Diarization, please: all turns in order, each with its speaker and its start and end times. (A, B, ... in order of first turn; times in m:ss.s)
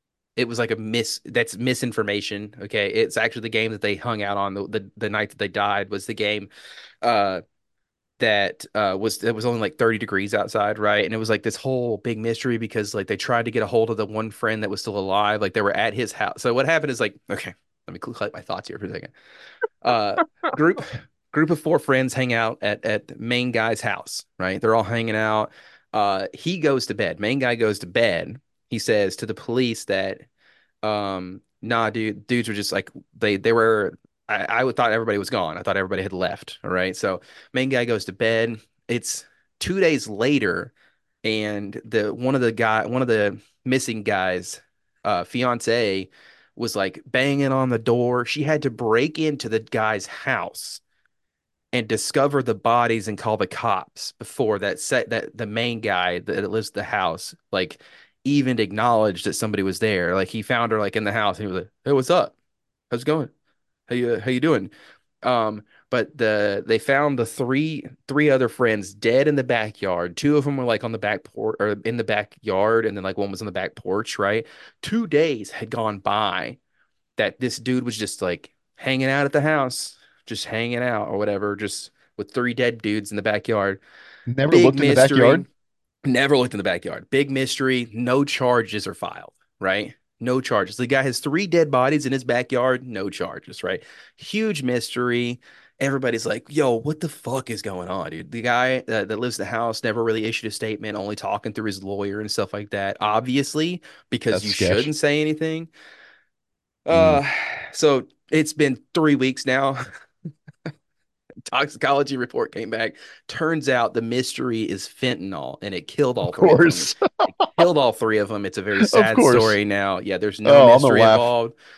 0:00.4-0:06.5 A
0:07.0-0:07.4 A
0:08.2-0:19.1 A
0:19.8-0:30.3 A
0:30.8-0:40.7 A
0:41.2-0:50.8 A
0:51.7-1:02.3 A
1:02.9-1:03.3 A
1:03.9-1:04.7 A
1:05.2-1:16.6 A
1:17.2-1:23.8 A
1:24.3-1:25.5 B
1:24.5-1:25.5 A
1:26.0-1:45.7 A
1:44.3-1:44.9 B
1:46.9-1:49.9 A
1:46.9-1:47.2 B
1:51.5-2:01.5 A
1:56.2-1:57.6 B
1:58.8-1:59.6 B
2:00.4-2:01.3 B